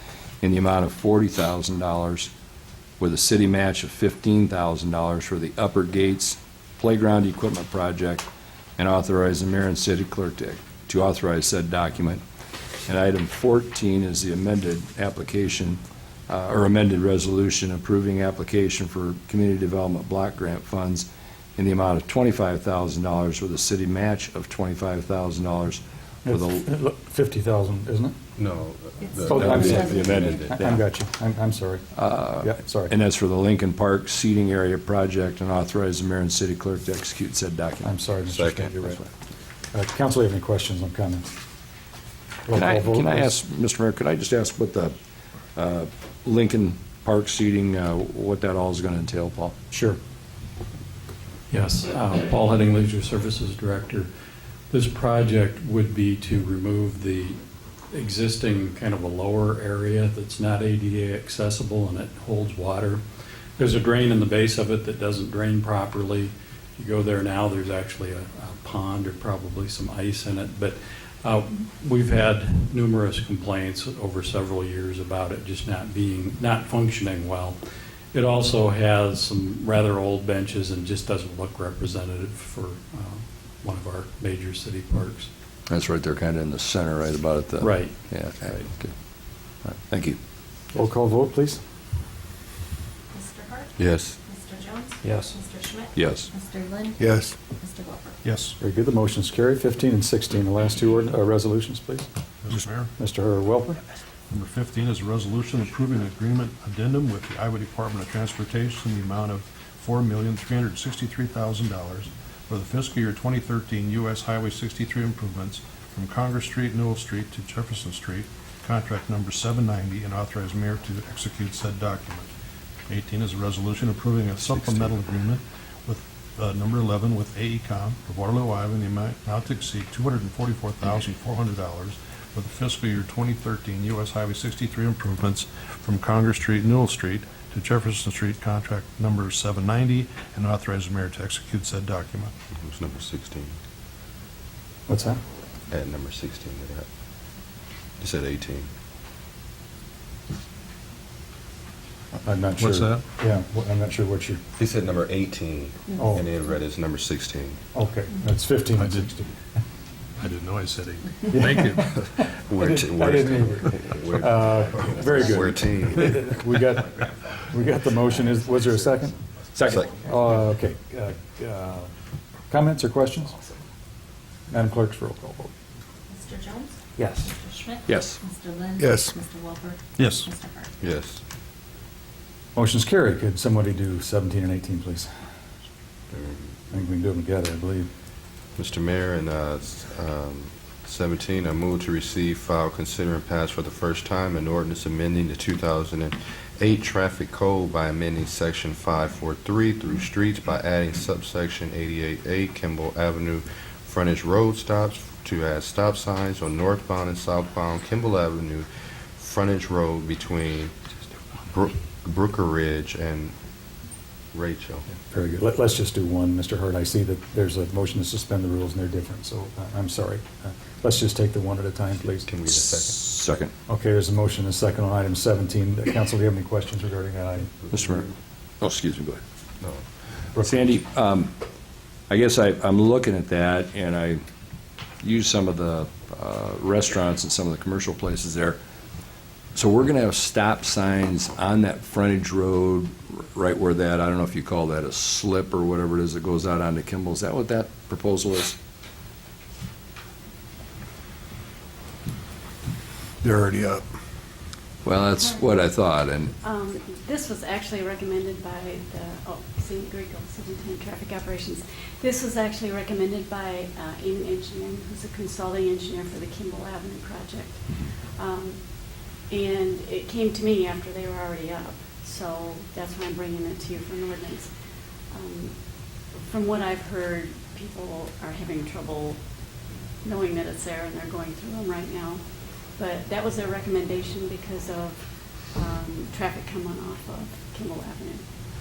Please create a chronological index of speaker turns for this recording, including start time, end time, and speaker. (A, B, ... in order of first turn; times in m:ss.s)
0:00.4-0:02.3 A
0:03.0-0:12.2 A
0:12.8-0:26.6 A
0:26.2-0:28.1 B
0:28.4-0:30.6 C
0:29.3-0:31.8 B
0:29.3-0:30.8 A
0:32.0-0:37.9 A
0:32.4-0:32.9 B
0:37.8-0:39.0 B
0:38.3-0:38.8 C
0:39.7-0:41.3 B
0:42.4-0:43.4 B
0:42.5-0:44.9 A
0:45.6-0:49.6 A
0:49.7-0:50.0 B
0:51.5-0:54.1 D
0:54.7-0:57.4 D
0:57.9-1:03.0 D
1:03.6-1:17.6 D
1:18.1-1:25.3 D
1:25.7-1:28.9 A
1:27.6-1:28.7 D
1:29.6-1:30.2 A
1:30.7-1:31.6 B
1:33.1-1:33.7 E
1:33.8-1:34.2 C
1:34.2-1:38.2 E
1:35.0-1:35.3 D
1:35.9-1:36.3 A
1:38.2-1:38.6 F
1:38.6-1:42.1 B
1:42.4-1:42.9 F
1:43.0-1:43.8 B
1:44.3-2:02.3 F
2:02.9-2:22.3 F
2:22.5-2:23.5 C
2:24.9-2:25.2 B
2:25.7-2:26.9 C
2:28.0-2:28.7 C
2:32.2-2:34.4 B
2:32.6-2:33.0 F
2:34.6-2:37.6 C
2:36.0-2:36.3 B
2:37.7-2:39.3 B
2:38.8-2:39.0 F
2:40.2-2:41.8 F
2:41.3-2:49.2 B
2:42.2-2:46.2 C
2:49.5-2:49.8 A
2:49.7-2:49.9 C
2:50.0-2:51.9 B
2:52.5-2:53.4 B
2:54.5-2:55.5 B
2:56.1-2:56.7 E
2:57.0-2:57.3 B
2:57.2-3:00.7 E
2:57.8-2:58.2 A
3:00.0-3:00.3 F
3:00.8-3:01.2 C
3:02.5-3:05.1 B
3:06.1-3:06.5 C
3:06.7-3:07.9 B
3:08.6-3:28.7 C
3:29.2-3:30.7 C
3:31.5-3:33.3 C
3:34.3-3:34.8 C
3:35.1-3:42.2 B
3:42.0-3:43.0 C
3:42.5-3:43.5 A
3:43.7-3:47.6 B
3:47.7-3:48.1 A
3:48.6-3:49.2 A
3:50.3-3:50.7 B
3:50.4-3:51.3 A
3:52.1-3:54.2 A
3:55.0-3:58.6 A
3:59.5-4:08.6 A
4:14.8-4:16.3 A
4:15.2-4:15.5 G
4:16.4-4:34.5 G
4:35.1-4:39.2 G
4:40.0-4:48.2 G